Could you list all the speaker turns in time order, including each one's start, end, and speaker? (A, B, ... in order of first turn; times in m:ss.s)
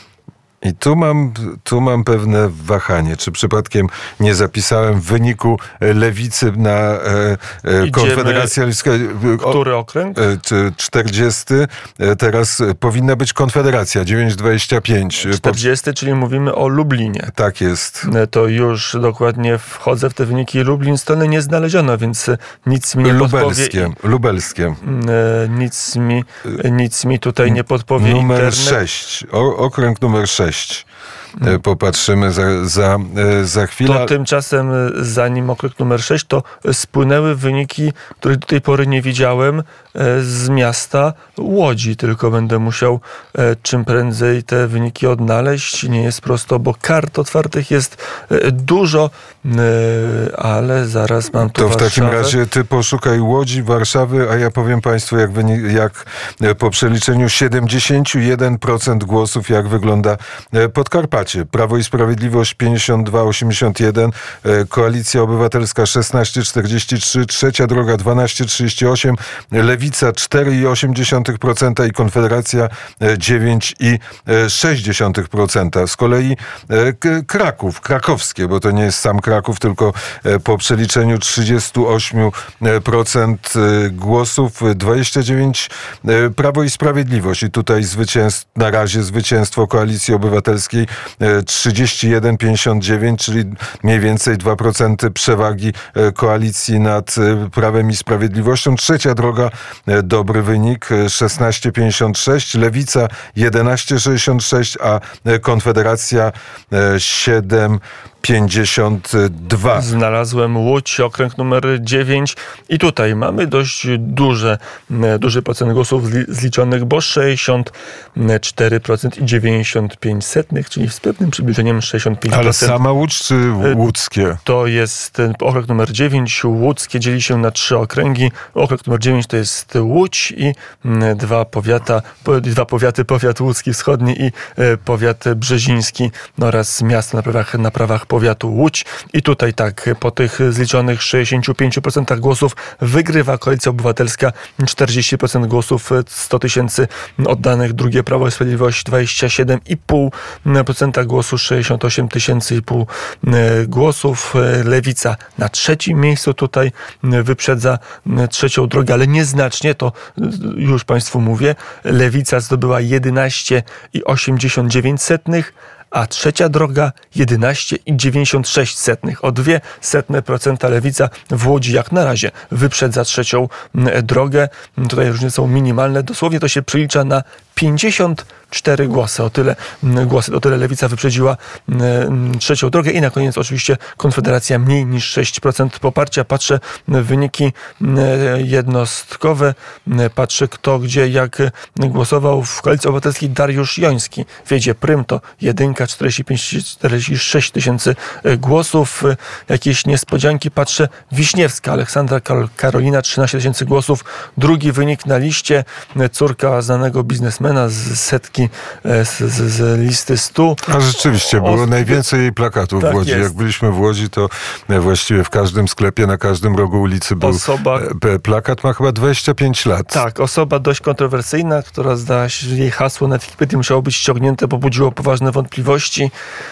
0:00.6-0:09.6 A
0:07.8-0:08.6 B
0:09.4-0:10.2 B
0:10.2-0:15.6 A
0:15.2-0:17.3 B
0:17.3-0:18.1 A
0:18.0-0:23.9 B
0:23.0-0:24.8 A
0:24.8-0:28.8 B
0:27.4-0:30.9 A
0:31.4-0:34.1 A
0:33.8-0:52.4 B
0:51.4-1:49.9 A
1:49.7-2:02.8 B
2:02.3-2:04.4 A
2:04.4-3:30.7 B
3:30.7-3:40.0 A
3:31.3-3:32.0 B
3:32.8-3:33.3 B
3:37.2-3:37.9 B
3:39.9-3:46.1 B